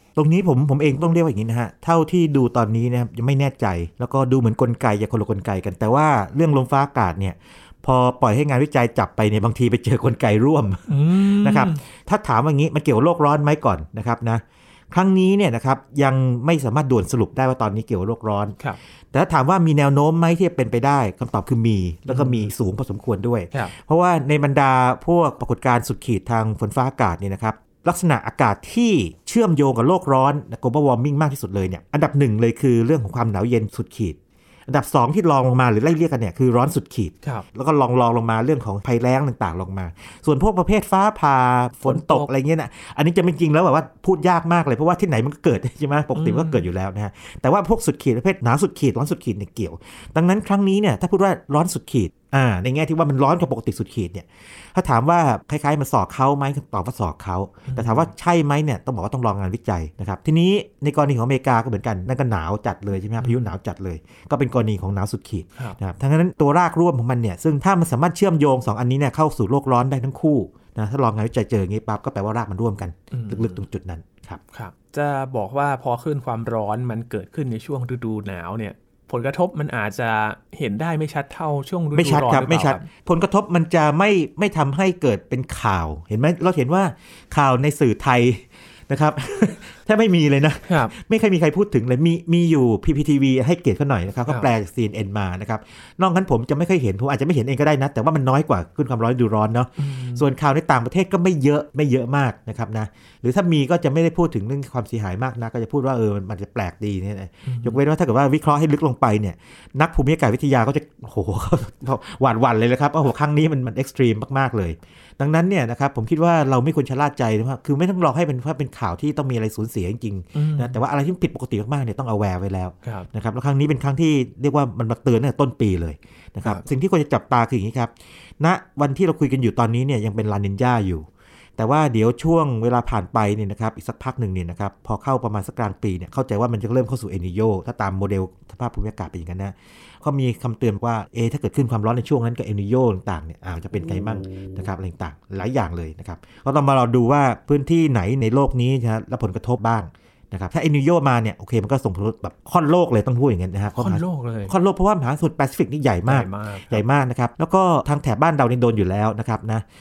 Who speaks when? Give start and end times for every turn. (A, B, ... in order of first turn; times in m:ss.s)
0:00.2-0:18.6 A
0:10.9-0:11.8 B
0:19.1-1:14.4 A
0:22.1-0:22.5 B
0:41.8-0:42.3 B
0:46.2-0:46.7 B
0:57.7-0:58.1 B
1:03.2-1:03.5 B
1:13.1-1:13.6 B
1:14.5-1:22.9 B
1:21.9-2:11.1 A
1:30.7-1:30.9 B
1:39.8-1:40.2 B
1:47.5-1:47.8 B
2:00.3-2:00.8 B
2:11.6-2:39.6 A
2:23.8-2:24.7 B
2:33.8-2:34.5 B
2:36.1-2:36.8 B